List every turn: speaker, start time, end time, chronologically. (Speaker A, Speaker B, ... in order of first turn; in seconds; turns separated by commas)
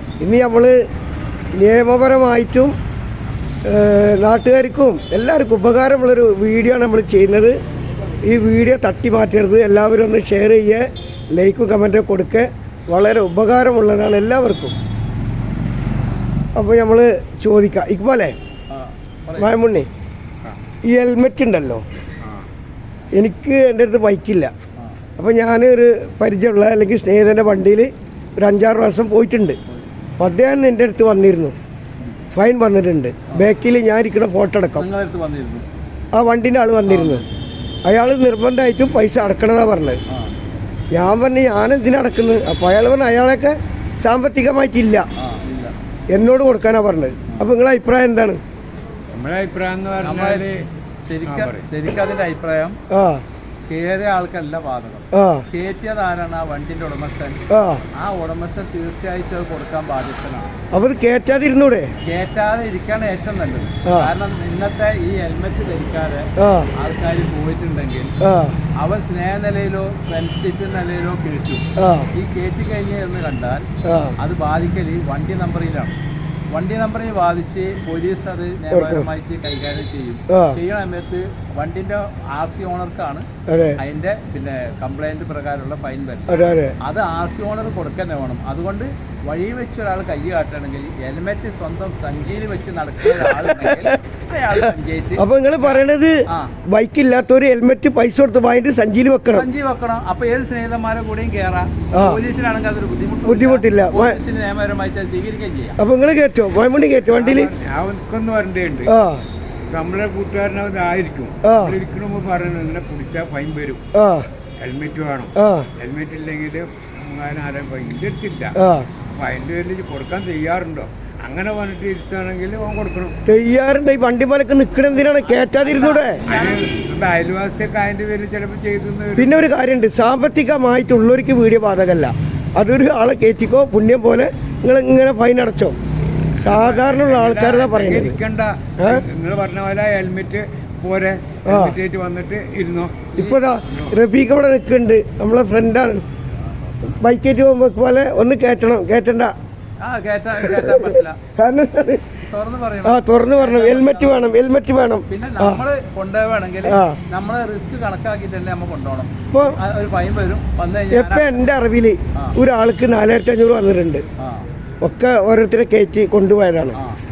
Speaker A: 0.2-0.8, Speaker A: 1.6-2.8, Speaker A: 3.7-7.5, Speaker A: 8.2-14.7, Speaker A: 16.6-18.4, Speaker B: 18.7-19.5, Speaker A: 19.4-19.9, Speaker A: 20.8-21.8, Speaker C: 22.2-22.5, Speaker A: 23.2-24.5, Speaker A: 25.2-29.6, Speaker A: 30.2-31.6, Speaker B: 32.0-32.3, Speaker A: 32.3-34.9, Speaker B: 34.8-35.7, Speaker A: 36.1-37.2, Speaker B: 36.9-37.3, Speaker A: 37.9-40.0, Speaker B: 40.1-40.3, Speaker A: 40.9-45.1, Speaker B: 45.2-45.8, Speaker A: 46.1-48.4, Speaker B: 47.3-47.5, Speaker C: 49.1-50.6, Speaker B: 50.0-50.5, Speaker B: 51.1-52.8, Speaker C: 51.3-51.6, Speaker A: 52.9-53.2, Speaker B: 53.7-57.4, Speaker A: 55.1-55.5, Speaker A: 57.5-57.8, Speaker B: 57.9-60.5, Speaker A: 60.7-61.9, Speaker B: 62.0-68.1, Speaker A: 63.9-64.1, Speaker A: 66.4-66.7, Speaker A: 68.2-68.6, Speaker B: 68.8-73.7, Speaker A: 71.8-72.1, Speaker A: 73.8-74.2, Speaker B: 74.2-76.0, Speaker B: 76.5-83.3, Speaker A: 78.7-79.1, Speaker A: 80.3-80.6, Speaker A: 83.5-83.8, Speaker B: 83.8-96.6, Speaker A: 86.3-86.8, Speaker A: 93.2-93.9, Speaker A: 95.2-99.5, Speaker B: 99.3-105.8, Speaker A: 101.9-102.2, Speaker A: 103.2-104.2, Speaker A: 105.8-107.5, Speaker C: 107.1-108.9, Speaker A: 108.9-109.2, Speaker C: 109.7-113.8, Speaker A: 111.4-111.8, Speaker A: 113.9-114.3, Speaker C: 114.6-123.2, Speaker A: 115.4-115.7, Speaker A: 118.5-118.9, Speaker A: 123.3-126.2, Speaker B: 125.2-126.8, Speaker C: 126.3-129.3, Speaker A: 129.2-135.8, Speaker A: 136.4-138.2, Speaker C: 136.4-143.1, Speaker A: 138.8-139.0, Speaker A: 141.5-141.8, Speaker B: 143.1-144.0, Speaker A: 143.2-146.0, Speaker A: 146.8-149.3, Speaker B: 149.8-151.2, Speaker A: 150.5-150.8, Speaker A: 151.3-152.1, Speaker B: 152.3-154.2, Speaker A: 152.8-155.6, Speaker B: 155.1-161.4, Speaker A: 156.6-157.0, Speaker A: 159.3-159.6, Speaker A: 160.9-164.0, Speaker B: 164.2-164.5, Speaker A: 164.8-166.8, Speaker B: 166.8-167.0